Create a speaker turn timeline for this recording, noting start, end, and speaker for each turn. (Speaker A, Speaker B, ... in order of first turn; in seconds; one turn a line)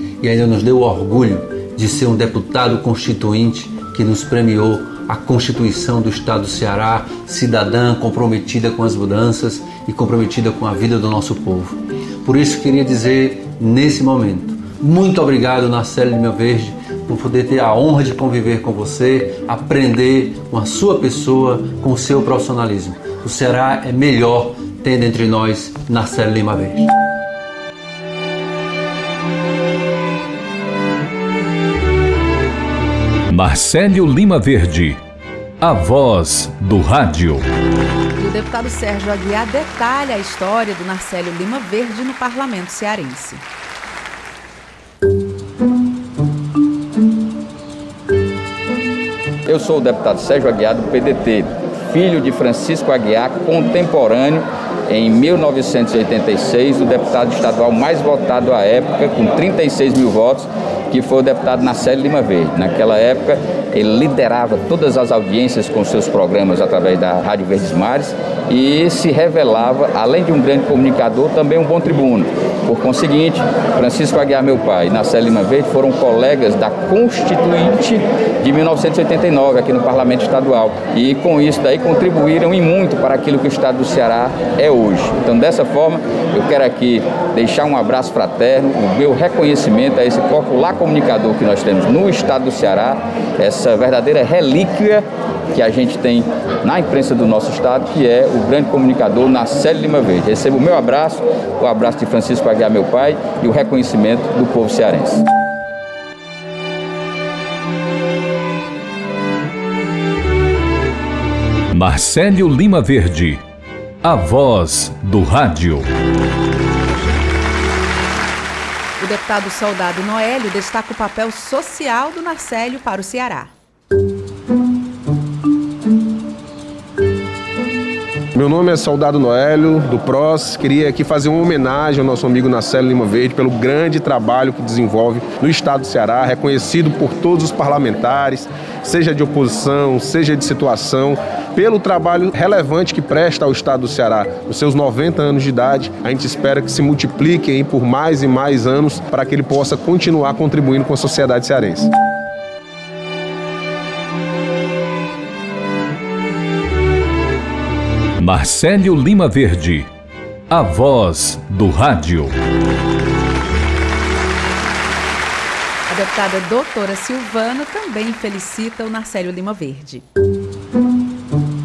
Speaker A: 0.2-26.9
Speaker B: 33.3-35.0
Speaker B: 35.6-37.5
Speaker C: 38.2-43.4
Speaker D: 49.5-105.2
Speaker B: 111.7-113.4
Speaker B: 114.0-115.9
Speaker C: 116.8-117.3
Speaker C: 119.0-123.5
Speaker E: 128.3-151.9
Speaker B: 158.2-159.9
Speaker B: 160.5-162.3
Speaker C: 165.9-170.0